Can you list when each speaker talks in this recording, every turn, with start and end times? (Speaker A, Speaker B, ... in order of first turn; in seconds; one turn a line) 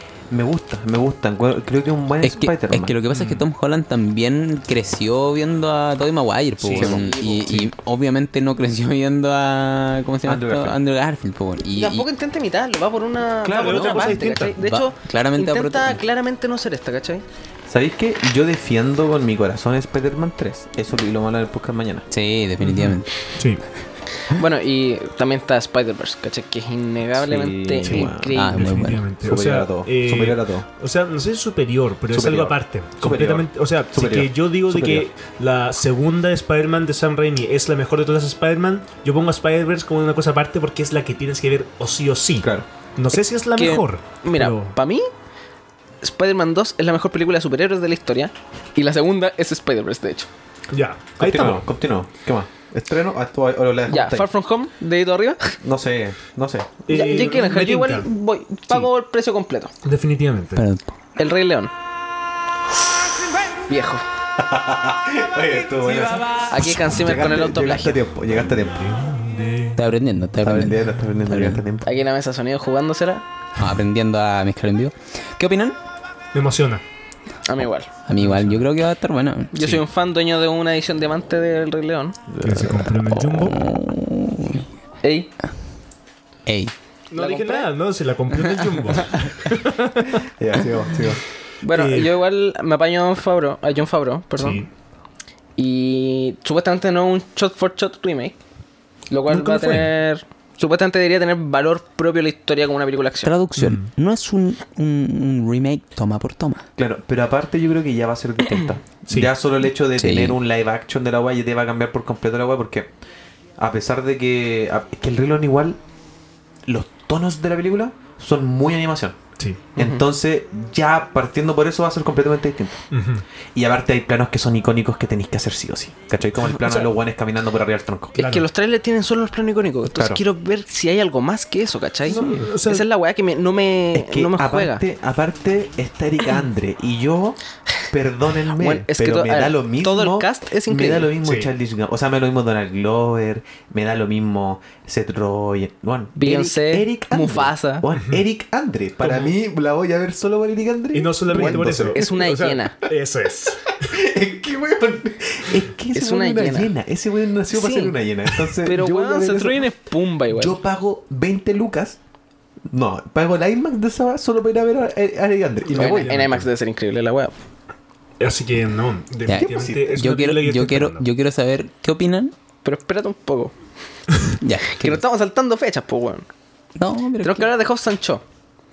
Speaker A: 0.3-3.0
Speaker B: 2.2-12.1
Speaker C: 3.1-3.4
Speaker A: 6.7-7.1
Speaker D: 6.8-7.6
Speaker A: 10.2-10.8
Speaker D: 11.8-17.2
Speaker A: 13.4-14.3
Speaker C: 13.5-14.6
Speaker B: 14.6-16.0
Speaker A: 17.7-22.1
Speaker B: 22.1-23.1
Speaker C: 22.6-23.6
Speaker D: 24.3-28.7
Speaker A: 27.1-28.3
Speaker C: 27.9-44.8
Speaker B: 28.3-29.0
Speaker A: 29.2-30.7
Speaker A: 32.1-35.1
Speaker A: 42.4-42.7
Speaker D: 43.5-45.1
Speaker D: 46.0-50.3
Speaker C: 50.7-51.6
Speaker A: 51.2-54.3
Speaker D: 53.9-55.6
Speaker A: 55.6-56.9
Speaker C: 56.9-58.1
Speaker D: 56.9-59.7
Speaker C: 59.8-60.6
Speaker B: 60.6-60.9
Speaker D: 61.2-61.7
Speaker D: 63.7-64.0
Speaker A: 64.4-68.9
Speaker D: 66.5-68.0
Speaker C: 68.5-69.8
Speaker B: 69.8-71.6
Speaker A: 70.4-71.9
Speaker D: 71.8-73.2
Speaker B: 73.6-75.8
Speaker C: 76.3-76.8
Speaker D: 77.5-77.9
Speaker B: 78.1-79.8
Speaker C: 78.2-78.7
Speaker D: 79.5-82.2
Speaker A: 82.3-82.9
Speaker C: 82.4-83.6
Speaker B: 83.0-84.7
Speaker D: 85.0-85.3
Speaker B: 86.5-86.7
Speaker C: 87.1-90.1
Speaker D: 87.2-87.7
Speaker A: 90.3-91.2
Speaker D: 91.6-94.6
Speaker C: 91.7-92.1
Speaker C: 94.4-94.7
Speaker D: 95.6-98.4
Speaker D: 99.1-103.3
Speaker C: 99.3-99.9
Speaker B: 103.2-106.7
Speaker C: 103.6-103.9
Speaker A: 106.8-112.9
Speaker C: 109.1-109.3
Speaker B: 110.0-110.4
Speaker A: 113.6-115.8
Speaker A: 116.7-119.2
Speaker C: 119.4-119.7
Speaker D: 119.8-120.0
Speaker A: 119.8-122.8
Speaker C: 122.9-123.2
Speaker A: 123.5-128.2
Speaker D: 126.5-126.9
Speaker D: 128.2-134.8
Speaker C: 128.2-128.4
Speaker A: 129.9-130.2
Speaker C: 132.1-132.9
Speaker A: 133.9-137.4
Speaker A: 137.9-152.1
Speaker D: 138.6-141.1
Speaker C: 141.2-141.5
Speaker D: 146.2-147.9
Speaker C: 147.9-148.2
Speaker C: 150.9-153.7
Speaker D: 151.3-152.9
Speaker A: 153.8-159.7
Speaker D: 155.9-156.7
Speaker D: 157.5-157.9
Speaker D: 158.6-160.6
Speaker A: 160.3-162.0
Speaker A: 162.7-166.1
Speaker C: 165.7-166.5
Speaker D: 165.7-167.3
Speaker C: 168.2-171.1
Speaker B: 169.3-172.3
Speaker A: 169.4-169.9
Speaker D: 172.6-173.5
Speaker B: 174.4-175.0
Speaker D: 174.8-176.3
Speaker B: 176.8-177.5
Speaker D: 177.2-178.2